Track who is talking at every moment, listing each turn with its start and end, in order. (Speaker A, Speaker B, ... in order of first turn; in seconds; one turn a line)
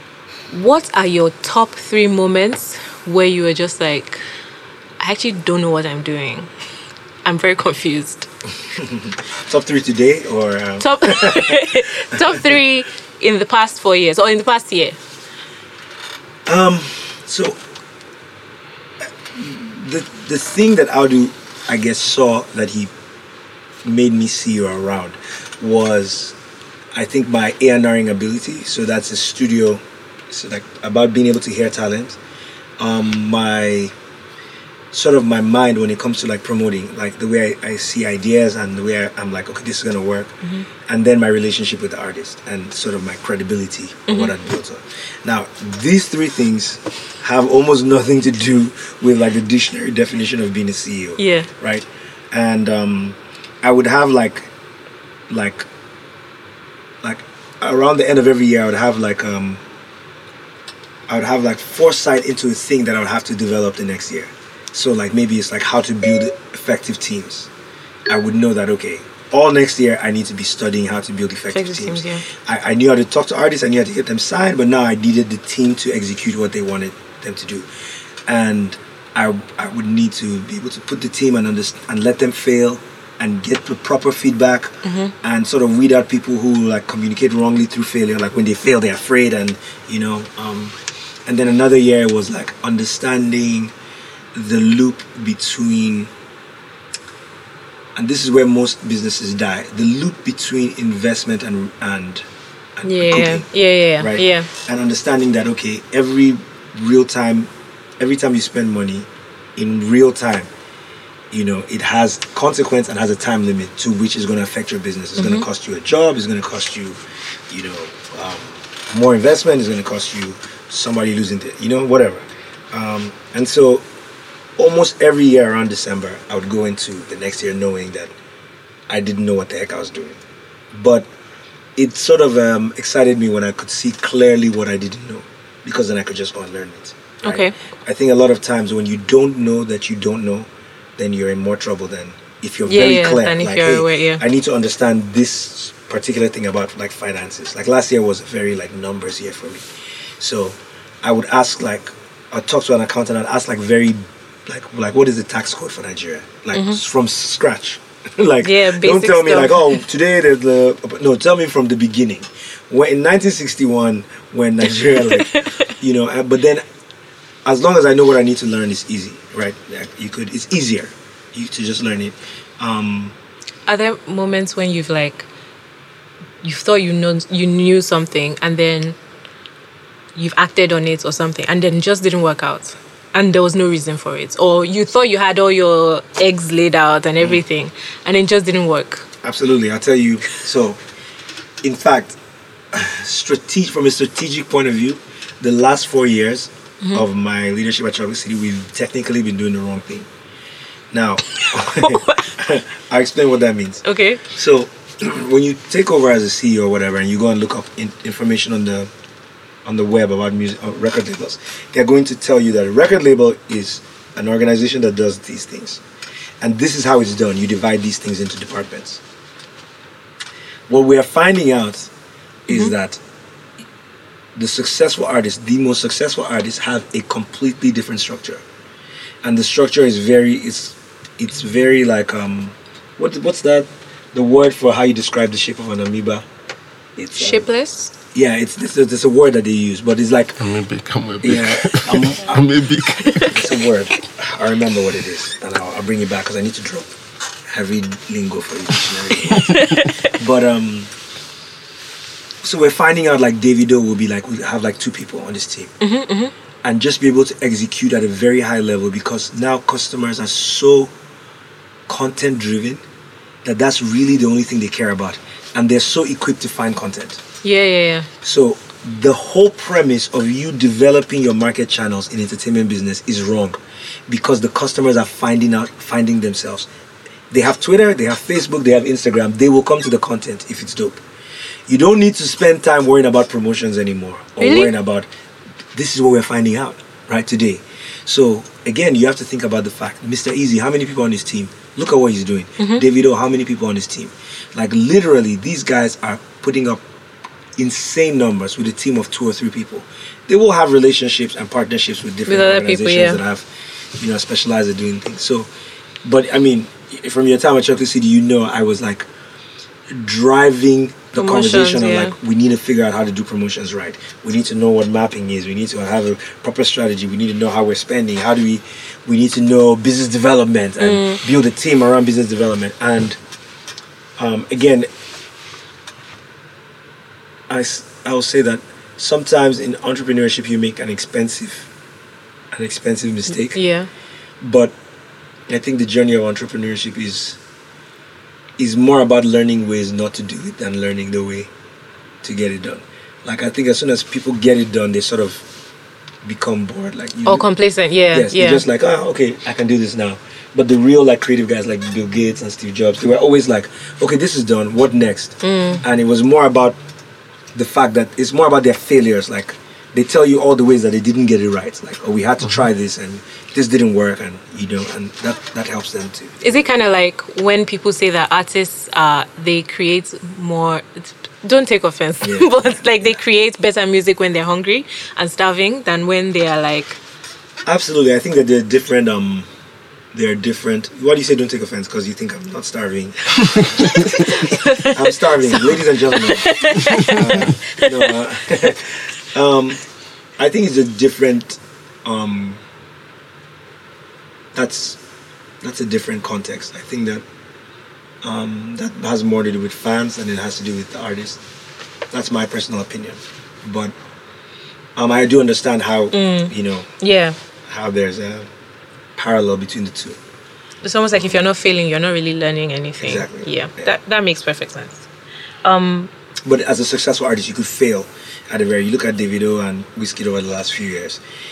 Speaker A: 0.5-4.2
Speaker A: 5.0-6.5
Speaker A: 7.2-8.3
Speaker B: 8.8-12.4
Speaker A: 10.8-15.0
Speaker B: 16.5-17.6
Speaker B: 19.0-22.9
Speaker B: 23.8-26.4
Speaker B: 26.9-32.2
Speaker B: 32.8-33.9
Speaker B: 34.9-54.5
Speaker A: 44.1-44.3
Speaker A: 51.2-51.5
Speaker B: 55.3-55.6
Speaker B: 57.0-59.6
Speaker B: 61.1-67.5
Speaker B: 68.0-77.7
Speaker A: 71.5-72.2
Speaker B: 78.2-93.7
Speaker A: 84.8-85.1
Speaker B: 94.3-96.1
Speaker B: 97.9-110.5
Speaker A: 102.8-104.5
Speaker B: 111.3-123.8
Speaker A: 115.2-115.5
Speaker B: 124.6-128.1
Speaker B: 128.9-130.2
Speaker B: 130.7-131.1
Speaker B: 131.8-149.7
Speaker A: 137.2-137.5
Speaker A: 142.7-144.2
Speaker B: 150.2-166.6
Speaker A: 156.5-156.8
Speaker A: 158.4-159.8
Speaker A: 165.0-165.7
Speaker B: 167.4-173.1
Speaker A: 173.7-175.3
Speaker A: 176.4-178.9
Speaker A: 180.1-189.1
Speaker B: 189.2-190.8
Speaker B: 191.6-192.2
Speaker B: 192.7-200.1
Speaker B: 200.9-208.9
Speaker A: 201.5-202.3
Speaker A: 203.8-204.2
Speaker B: 209.6-215.8
Speaker B: 216.4-219.0
Speaker B: 220.7-221.9
Speaker B: 222.5-223.0
Speaker B: 224.3-228.4
Speaker B: 229.2-236.2
Speaker B: 236.9-237.5
Speaker A: 237.2-237.9
Speaker B: 238.1-240.4
Speaker C: 240.4-243.4
Speaker B: 241.2-242.5
Speaker A: 243.1-243.3
Speaker B: 243.2-246.9
Speaker B: 247.5-249.6
Speaker A: 249.3-250.1
Speaker B: 250.1-250.9
Speaker B: 252.4-255.7
Speaker A: 255.8-256.3
Speaker B: 256.6-260.9
Speaker B: 261.9-262.8
Speaker B: 263.4-267.2
Speaker A: 267.4-268.1
Speaker B: 268.2-276.7
Speaker B: 277.3-281.0
Speaker B: 281.7-285.1
Speaker A: 284.4-284.7
Speaker B: 285.7-296.8
Speaker A: 292.6-292.8
Speaker B: 297.6-305.5
Speaker A: 302.2-303.2
Speaker B: 306.0-309.1
Speaker B: 309.9-323.2
Speaker A: 311.1-312.1
Speaker A: 320.8-321.2
Speaker B: 324.2-324.9
Speaker B: 327.5-331.7
Speaker B: 332.5-333.6
Speaker A: 333.5-333.9
Speaker B: 334.4-334.7
Speaker B: 335.5-337.4
Speaker B: 338.6-341.5
Speaker B: 342.2-345.4
Speaker B: 346.2-347.5
Speaker A: 347.2-348.6
Speaker B: 348.1-356.8
Speaker A: 355.4-355.8
Speaker B: 357.5-366.5
Speaker A: 366.4-377.0
Speaker B: 372.2-373.1
Speaker B: 377.6-379.5
Speaker B: 380.1-389.8
Speaker A: 383.9-388.1
Speaker B: 390.4-392.6
Speaker B: 394.5-395.0
Speaker B: 395.6-397.2
Speaker B: 398.2-401.4
Speaker B: 402.1-403.9
Speaker B: 404.9-406.9
Speaker A: 406.1-407.4
Speaker B: 407.6-408.5
Speaker B: 409.1-410.2
Speaker A: 410.8-415.1
Speaker B: 411.1-411.4
Speaker B: 413.0-413.9
Speaker A: 415.6-416.1
Speaker B: 416.4-421.2